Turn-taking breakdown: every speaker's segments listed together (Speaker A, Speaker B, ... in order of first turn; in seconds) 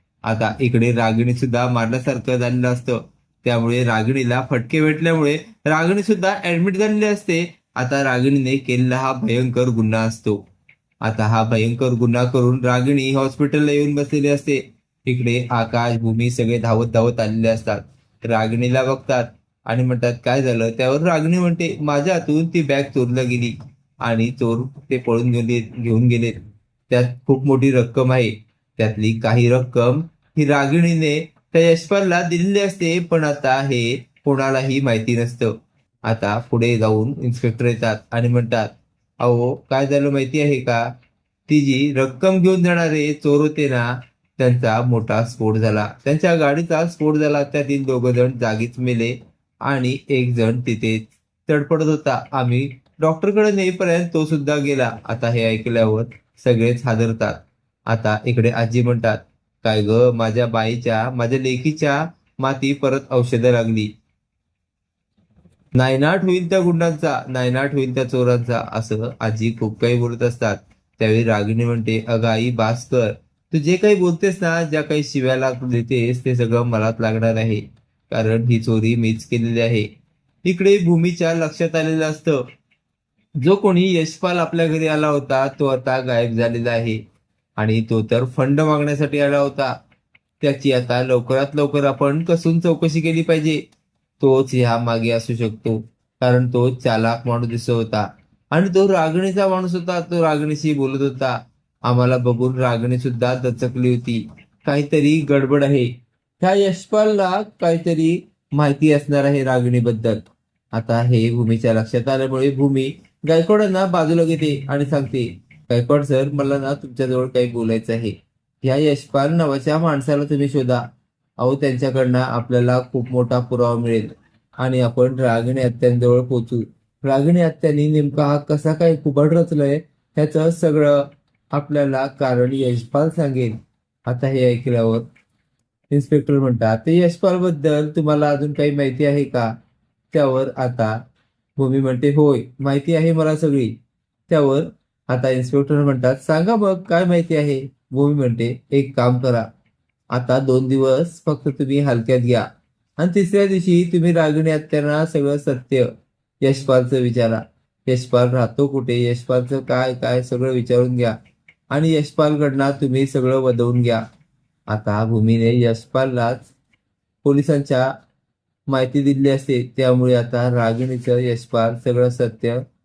Speaker A: 0.2-10.4, 11.0-35.5, 36.0-40.9, 41.5-63.9, 65.7-79.9, 80.4-82.4, 83.4-87.0, 87.6-89.7, 90.4-93.6, 94.2-105.9, 106.4-120.8, 121.4-135.1, 135.9-139.5, 140.1-140.9, 141.6-143.7, 144.3-149.5, 150.1-152.4, 153.0-155.9, 156.4-161.1, 161.7-164.0, 164.7-166.5, 167.2-167.9, 168.7-172.6